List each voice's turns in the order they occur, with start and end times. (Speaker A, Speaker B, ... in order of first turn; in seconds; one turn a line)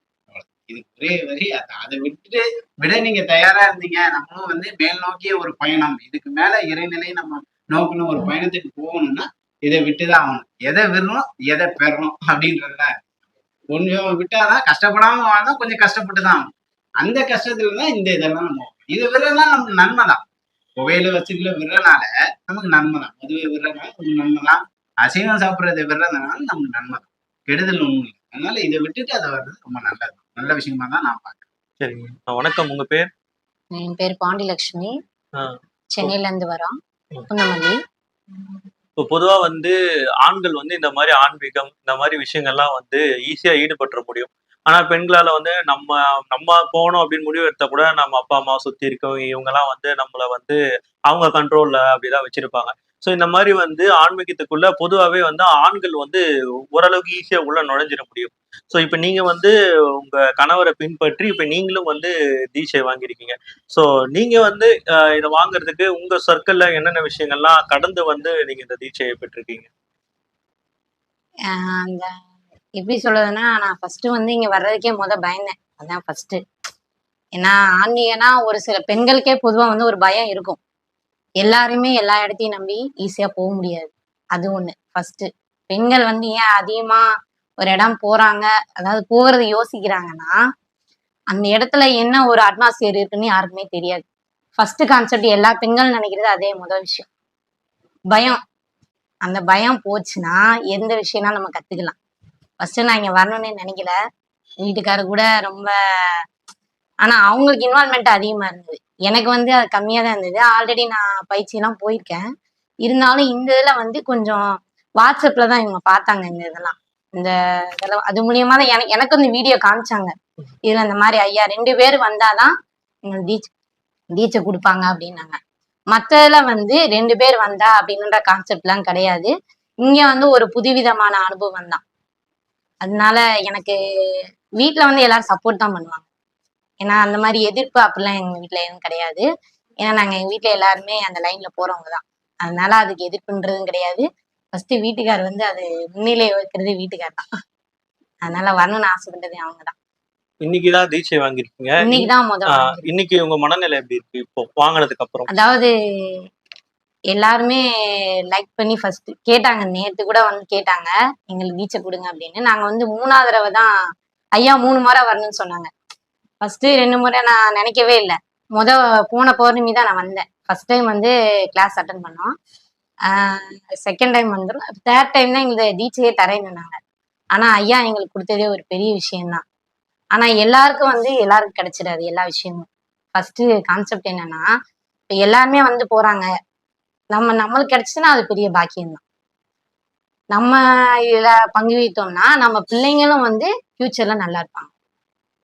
Speaker A: 0.3-12.9
Speaker A: 13.7-16.4
Speaker A: 17.0-20.2
Speaker A: 20.8-31.4
Speaker B: 31.8-33.1
Speaker C: 33.8-34.9
Speaker B: 35.4-36.1
Speaker C: 35.9-36.7
Speaker C: 37.3-37.8
Speaker B: 39.0-39.7
Speaker B: 40.2-50.6
Speaker B: 51.1-56.2
Speaker B: 56.7-69.7
Speaker C: 71.5-72.1
Speaker C: 72.8-76.4
Speaker C: 77.4-80.6
Speaker C: 81.4-87.0
Speaker C: 87.6-90.3
Speaker C: 91.3-94.0
Speaker C: 94.6-97.1
Speaker C: 98.1-98.4
Speaker C: 99.2-102.0
Speaker C: 102.6-103.9
Speaker C: 104.6-106.2
Speaker C: 107.0-112.2
Speaker C: 112.8-114.4
Speaker C: 115.0-120.1
Speaker C: 120.7-122.5
Speaker C: 123.0-123.5
Speaker C: 124.1-125.4
Speaker C: 125.9-129.3
Speaker C: 129.8-131.8
Speaker C: 132.8-136.1
Speaker C: 136.8-139.2
Speaker C: 139.8-147.2
Speaker C: 148.2-149.7
Speaker B: 150.4-155.3
Speaker C: 151.8-152.9
Speaker C: 155.3-155.7
Speaker C: 157.1-157.6
Speaker C: 158.3-163.7
Speaker C: 164.4-165.7
Speaker C: 166.4-172.3
Speaker C: 173.1-176.8
Speaker C: 177.3-179.4
Speaker C: 180.2-184.4
Speaker C: 185.1-186.2
Speaker C: 187.1-189.0
Speaker C: 191.1-194.7